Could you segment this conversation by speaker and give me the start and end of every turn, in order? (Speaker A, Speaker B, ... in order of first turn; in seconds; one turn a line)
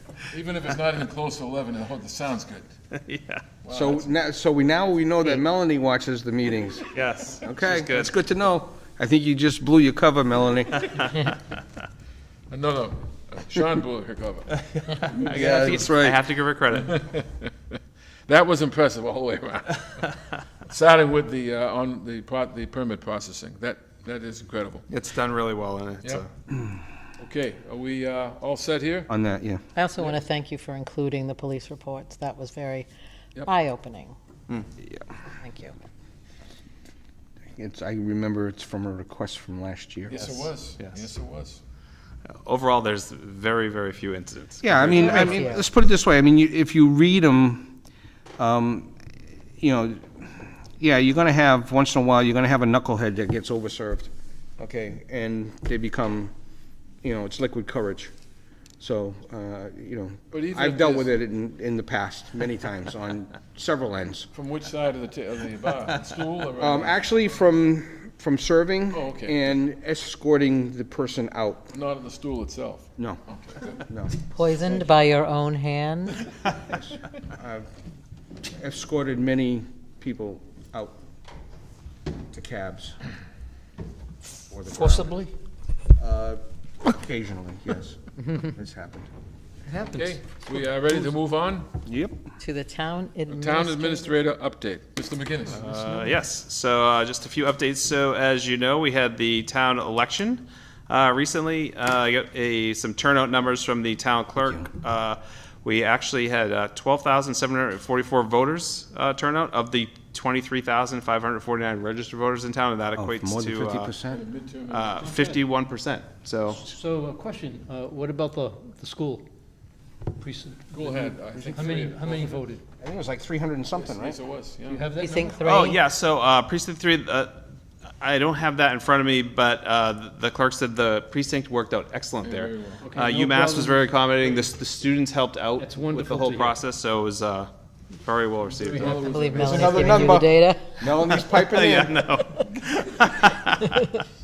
Speaker A: 0.3-2.7
Speaker B: 3.0-3.4
Speaker A: 3.6-4.1
Speaker C: 3.7-6.9
Speaker B: 6.9-8.1
Speaker C: 7.4-10.9
Speaker B: 10.8-11.3
Speaker A: 12.5-14.5
Speaker B: 14.5-17.0
Speaker C: 15.2-16.2
Speaker A: 16.8-17.5
Speaker A: 18.3-20.0
Speaker A: 20.7-24.9
Speaker B: 24.9-26.3
Speaker A: 27.2-29.1
Speaker C: 29.1-29.6
Speaker D: 29.8-32.9
Speaker D: 33.4-34.2
Speaker D: 35.4-35.7
Speaker C: 37.6-40.2
Speaker A: 40.1-41.6
Speaker B: 40.1-41.0
Speaker B: 42.3-45.4
Speaker C: 44.6-47.8
Speaker D: 45.0-45.6
Speaker C: 48.4-48.9
Speaker C: 49.6-56.3
Speaker C: 57.0-58.1
Speaker C: 58.8-64.3
Speaker A: 60.3-61.2
Speaker A: 64.3-67.0
Speaker C: 66.6-71.7
Speaker A: 68.9-69.4
Speaker A: 71.7-73.8
Speaker C: 73.9-74.1
Speaker D: 74.3-76.2
Speaker C: 76.5-77.7
Speaker C: 78.5-80.9
Speaker C: 82.3-83.0
Speaker C: 84.5-85.2
Speaker E: 84.7-85.3
Speaker C: 86.0-89.1
Speaker E: 89.7-90.2
Speaker A: 89.7-91.7
Speaker C: 91.9-92.2
Speaker D: 92.4-94.1
Speaker A: 93.3-95.7
Speaker B: 95.5-113.9
Speaker E: 95.7-96.1
Speaker C: 104.4-104.7
Speaker C: 113.0-114.3
Speaker A: 114.1-115.4
Speaker B: 114.7-116.6
Speaker E: 116.7-119.3
Speaker E: 120.2-122.6
Speaker A: 120.7-122.5
Speaker C: 122.8-124.2
Speaker A: 123.8-124.9
Speaker E: 124.7-125.5
Speaker D: 125.0-125.8
Speaker B: 125.4-127.4
Speaker B: 128.0-137.5
Speaker A: 132.2-133.0
Speaker E: 132.8-133.9
Speaker E: 135.6-136.6
Speaker B: 138.0-139.1
Speaker E: 138.6-139.7
Speaker A: 138.6-140.2
Speaker D: 139.0-140.6
Speaker C: 139.4-142.1
Speaker B: 141.0-143.8